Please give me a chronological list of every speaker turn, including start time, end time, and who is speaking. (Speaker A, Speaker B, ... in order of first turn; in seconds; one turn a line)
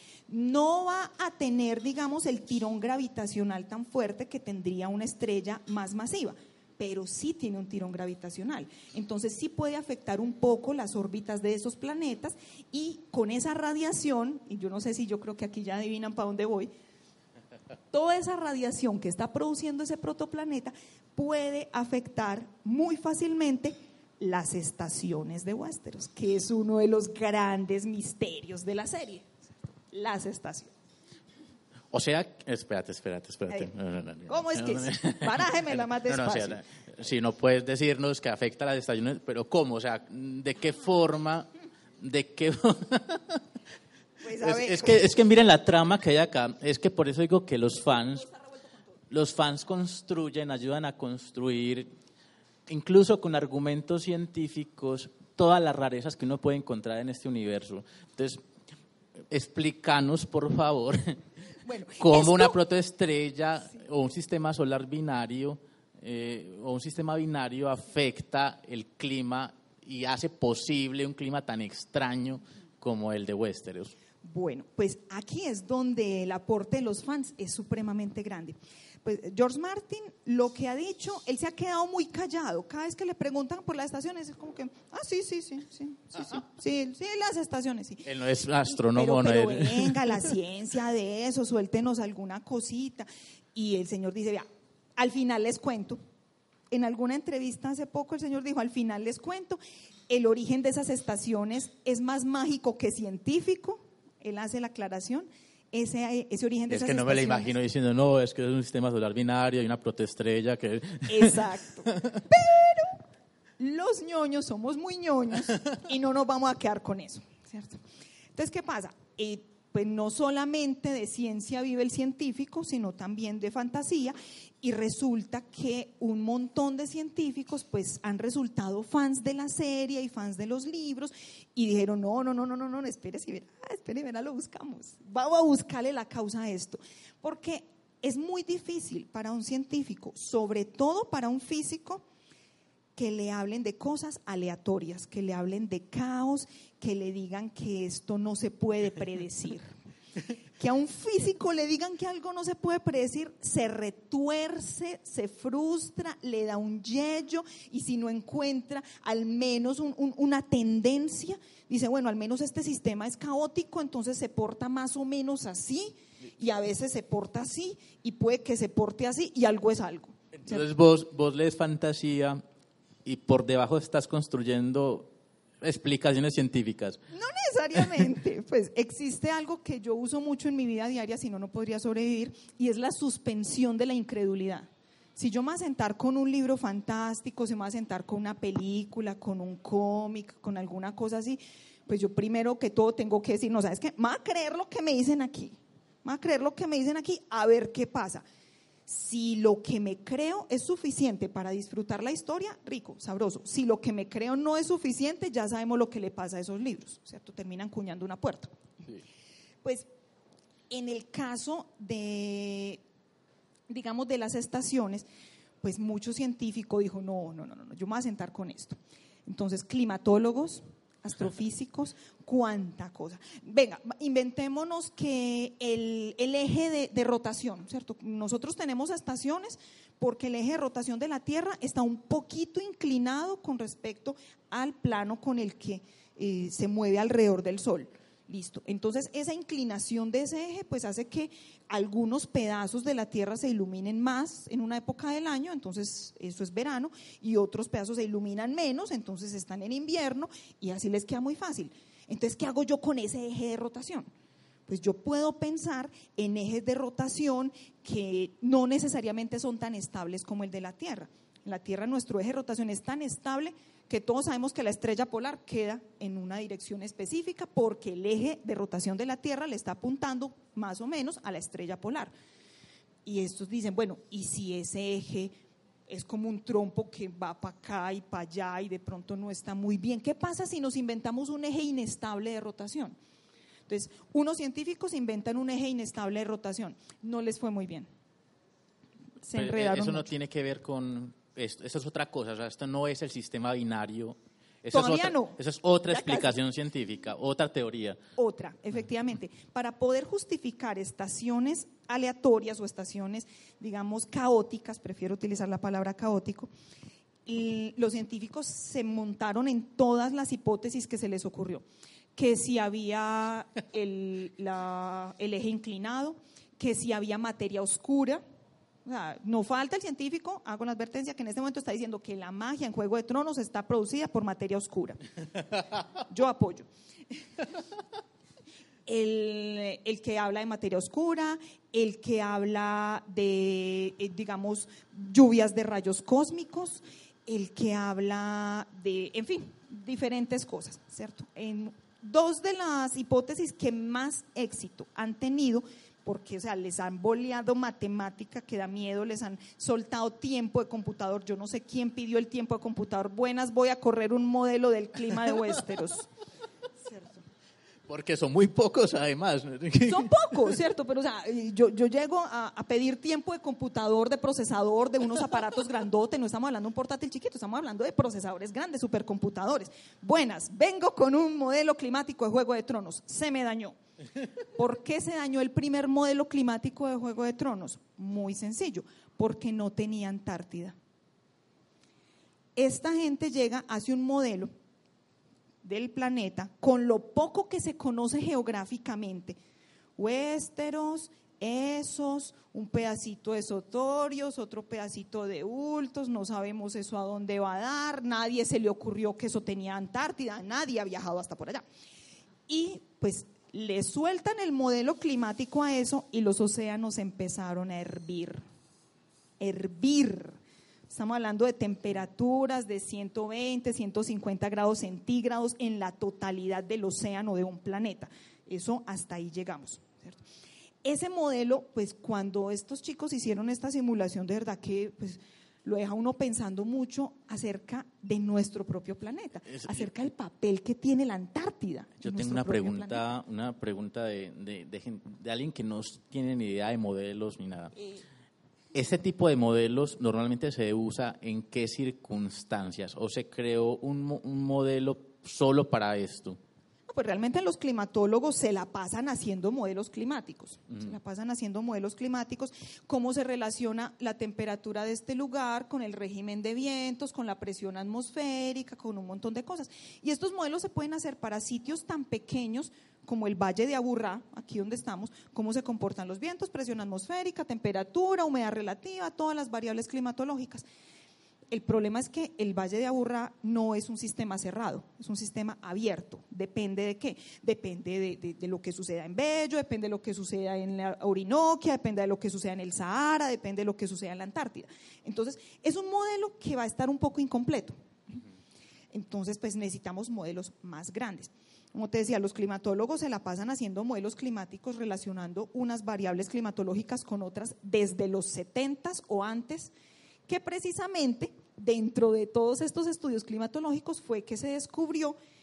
Speaker A: 0.3-16.7
Speaker A: 17.9-29.3
Speaker A: 29.9-30.7
Speaker B: 31.9-41.5
Speaker A: 34.3-36.6
Speaker B: 42.0-43.4
Speaker A: 44.2-45.0
Speaker B: 44.3-48.3
Speaker B: 49.1-51.9
Speaker B: 52.7-58.4
Speaker B: 59.3-61.2
Speaker A: 61.6-62.5
Speaker B: 62.0-73.9
Speaker A: 74.2-88.1
Speaker B: 88.0-90.2
Speaker A: 88.7-94.5
Speaker A: 95.0-96.0
Speaker A: 96.7-107.5
Speaker B: 106.7-112.2
Speaker A: 111.1-113.0
Speaker A: 113.6-117.8
Speaker A: 118.3-142.0
Speaker A: 142.9-149.7
Speaker A: 150.6-170.6
Speaker B: 170.4-172.4
Speaker B: 173.0-177.0
Speaker A: 177.1-198.2
Speaker A: 198.9-208.5
Speaker A: 210.7-212.8
Speaker A: 213.7-215.0
Speaker A: 215.6-254.1
Speaker A: 254.7-272.1
Speaker A: 273.1-275.3
Speaker A: 275.9-282.9
Speaker A: 283.7-287.9
Speaker A: 289.2-290.1
Speaker B: 289.3-298.0
Speaker A: 294.7-295.4
Speaker A: 295.9-296.3
Speaker A: 298.2-306.5
Speaker A: 307.2-311.6
Speaker A: 312.1-318.2
Speaker A: 318.8-325.0
Speaker A: 326.1-326.6
Speaker A: 328.9-356.1
Speaker A: 356.8-357.2
Speaker B: 357.9-360.5
Speaker A: 359.9-373.8
Speaker A: 374.6-380.8
Speaker A: 382.6-384.5
Speaker A: 385.6-389.4
Speaker A: 390.0-401.6
Speaker A: 402.5-408.4
Speaker A: 409.4-410.4
Speaker A: 410.9-420.2
Speaker A: 420.8-433.0
Speaker B: 429.5-429.9
Speaker B: 432.0-437.7
Speaker B: 438.7-446.4
Speaker A: 446.9-470.6
Speaker A: 471.5-487.7
Speaker A: 488.9-499.7
Speaker A: 500.3-505.2